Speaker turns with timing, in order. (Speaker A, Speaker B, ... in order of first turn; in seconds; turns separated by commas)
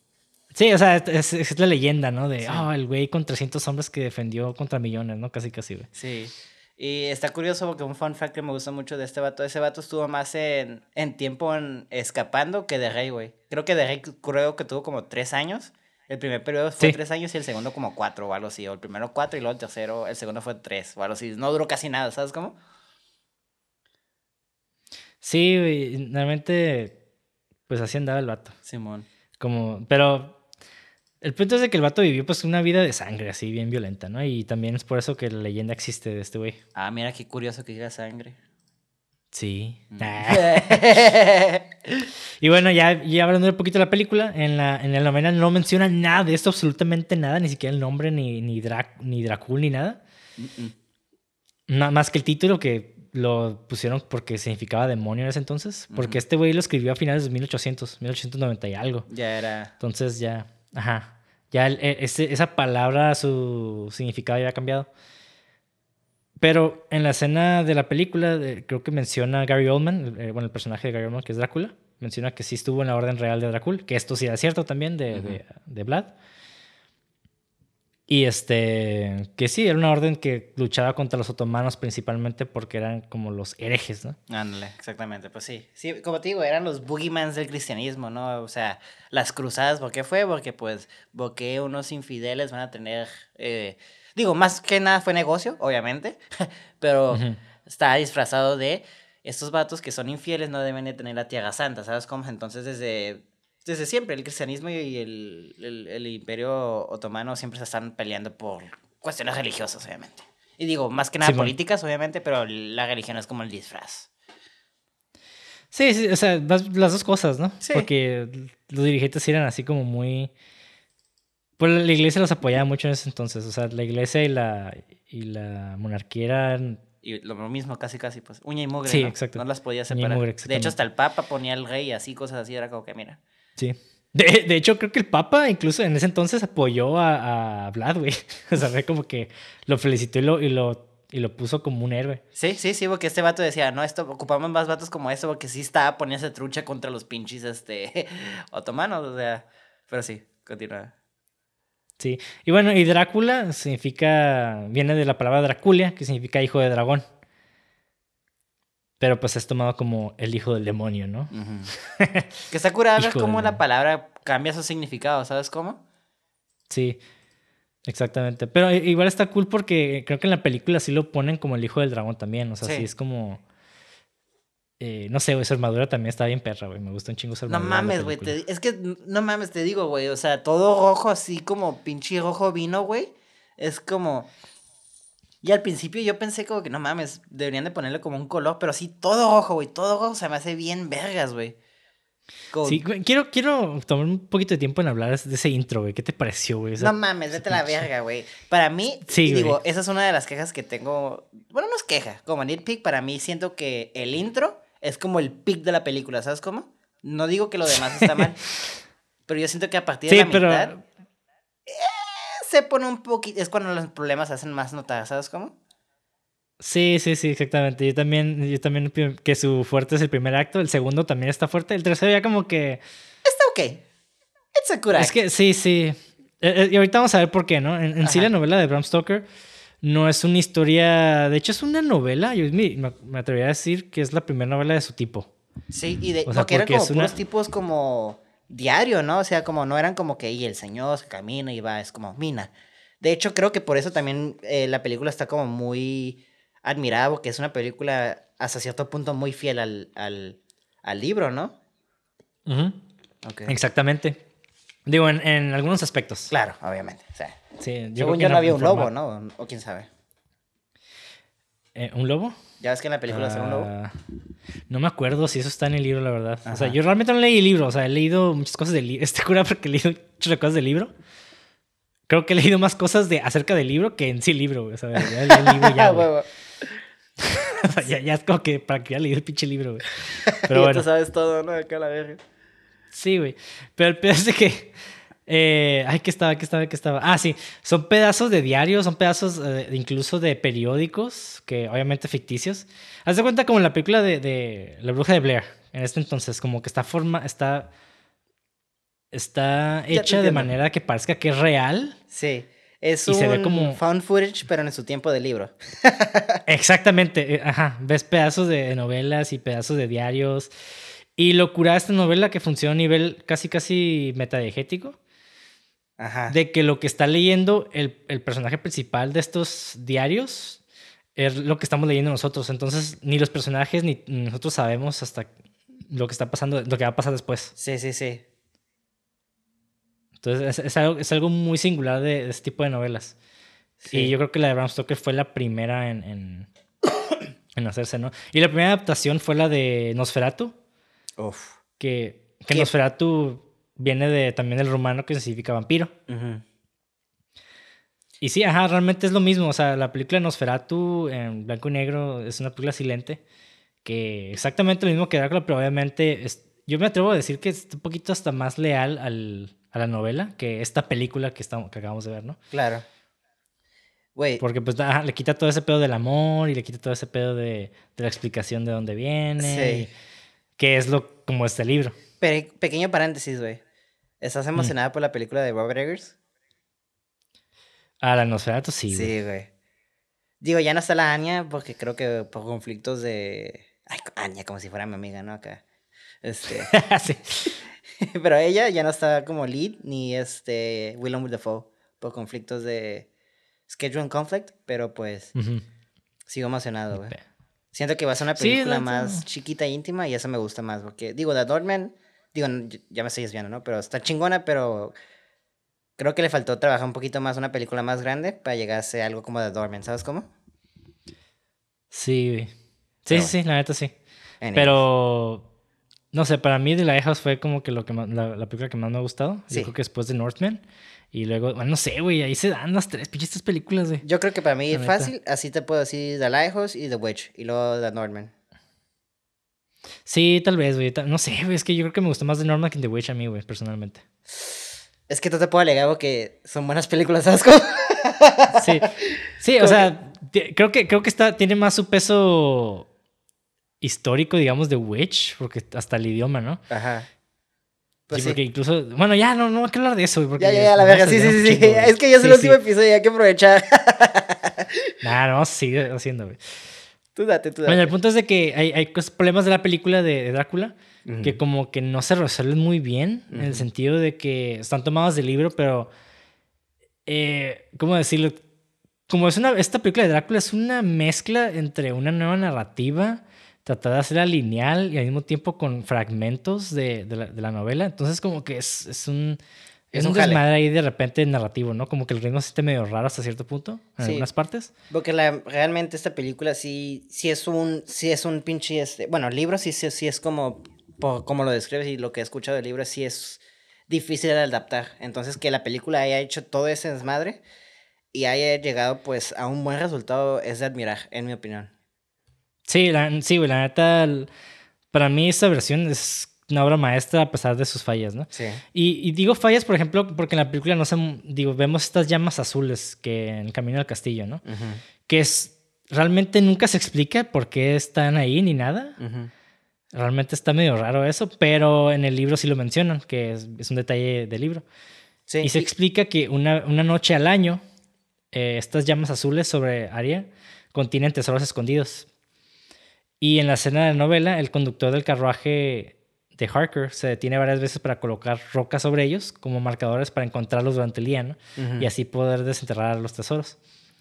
Speaker A: 0.5-5.9, Speaker B: 6.0-22.6, Speaker A: 25.2-27.0, Speaker A: 27.7-28.6, Speaker B: 28.6-29.1, Speaker A: 29.4-30.4, Speaker A: 31.2-36.6, Speaker B: 36.8-38.4, Speaker A: 39.3-40.8, Speaker B: 39.9-42.1, Speaker A: 42.4-50.0, Speaker B: 50.4-50.7, Speaker A: 51.7-59.1, Speaker B: 55.9-56.2, Speaker B: 59.1-59.7, Speaker A: 59.8-64.9, Speaker A: 66.4-76.1, Speaker B: 75.1-75.4, Speaker A: 78.1-84.2, Speaker B: 84.3-114.1, Speaker A: 97.1-97.4, Speaker A: 111.2-111.5, Speaker A: 115.7-120.3, Speaker B: 117.6-117.9, Speaker A: 121.6-126.8, Speaker B: 127.0-133.2, Speaker A: 128.9-130.8, Speaker A: 133.6-142.2, Speaker B: 142.3-150.9, Speaker A: 152.0-157.1, Speaker A: 159.0-162.3, Speaker B: 161.3-161.7, Speaker B: 162.5-165.8, Speaker A: 163.0-163.6, Speaker A: 166.7-167.0, Speaker A: 167.9-173.4, Speaker A: 174.8-178.4, Speaker B: 177.5-184.3, Speaker B: 185.4-191.6, Speaker B: 192.5-192.8, Speaker A: 192.6-196.9, Speaker B: 196.8-208.4, Speaker A: 199.1-199.6, Speaker A: 208.0-208.3, Speaker B: 209.3-210.7, Speaker A: 210.1-210.8, Speaker B: 211.7-215.5, Speaker A: 216.6-222.8, Speaker B: 223.2-223.8, Speaker B: 224.6-225.2, Speaker A: 224.9-229.3, Speaker B: 228.0-228.3, Speaker A: 229.8-235.3, Speaker B: 235.7-251.5, Speaker A: 236.3-237.1, Speaker A: 252.5-252.8, Speaker B: 253.2-253.5, Speaker A: 253.5-254.2, Speaker A: 254.9-256.3, Speaker B: 256.3-257.4, Speaker A: 257.6-258.9, Speaker B: 258.0-259.9, Speaker A: 261.8-262.4, Speaker B: 262.6-263.7, Speaker A: 263.1-263.9, Speaker A: 264.7-270.9, Speaker B: 266.5-266.8, Speaker A: 272.1-276.1, Speaker B: 275.0-276.7, Speaker A: 277.2-280.9, Speaker B: 280.3-282.2, Speaker A: 282.9-284.7, Speaker A: 285.3-297.7, Speaker A: 299.1-302.0, Speaker B: 299.9-300.5, Speaker B: 302.1-306.4, Speaker A: 303.1-303.8, Speaker A: 306.5-310.5, Speaker A: 311.2-315.0, Speaker B: 316.0-316.3, Speaker A: 316.3-320.6, Speaker A: 321.1-325.3, Speaker A: 325.9-327.5, Speaker B: 327.6-328.2, Speaker A: 330.2-333.1, Speaker B: 333.8-334.1, Speaker A: 333.9-336.5, Speaker A: 337.6-340.5, Speaker B: 341.2-341.6, Speaker A: 341.8-345.9, Speaker B: 346.1-346.4, Speaker A: 348.2-353.2, Speaker A: 353.9-362.4, Speaker B: 362.5-362.9, Speaker B: 364.1-364.4, Speaker A: 364.4-369.9, Speaker B: 369.4-369.9, Speaker A: 370.6-372.0, Speaker B: 372.2-373.6, Speaker B: 374.2-376.1, Speaker A: 378.0-379.1, Speaker B: 378.9-379.5, Speaker B: 380.4-385.6, Speaker B: 386.2-386.7, Speaker A: 386.6-387.6, Speaker B: 388.0-393.1, Speaker B: 393.7-395.3, Speaker A: 395.4-395.6, Speaker B: 396.3-397.1, Speaker A: 396.9-397.2, Speaker B: 397.7-404.9, Speaker A: 398.4-399.2, Speaker B: 406.0-410.3, Speaker A: 411.9-412.5, Speaker A: 413.0-413.9, Speaker B: 414.4-414.8, Speaker A: 414.5-415.5, Speaker A: 416.1-420.6, Speaker A: 421.1-424.0, Speaker B: 424.0-428.3, Speaker A: 424.7-425.1, Speaker A: 430.1-434.0, Speaker B: 435.1-439.9, Speaker A: 438.5-442.9, Speaker A: 443.8-446.6, Speaker B: 446.7-447.1, Speaker B: 448.1-448.4, Speaker A: 448.1-452.6, Speaker B: 450.4-454.9, Speaker A: 455.0-456.6, Speaker B: 457.1-457.9, Speaker A: 457.6-465.9, Speaker B: 461.0-461.4, Speaker B: 463.3-463.6, Speaker A: 467.1-468.4, Speaker A: 469.1-479.4, Speaker B: 479.9-480.4, Speaker A: 479.9-484.7, Speaker B: 484.0-484.2, Speaker B: 484.9-497.4, Speaker B: 498.1-501.7, Speaker A: 502.7-504.3, Speaker A: 504.9-514.4, Speaker B: 508.3-508.6, Speaker B: 514.4-514.8, Speaker A: 515.1-519.0, Speaker B: 519.0-519.3, Speaker A: 519.9-524.6, Speaker B: 525.3-525.7, Speaker A: 525.4-527.6, Speaker A: 528.3-532.1, Speaker A: 533.2-543.6, Speaker B: 541.6-541.9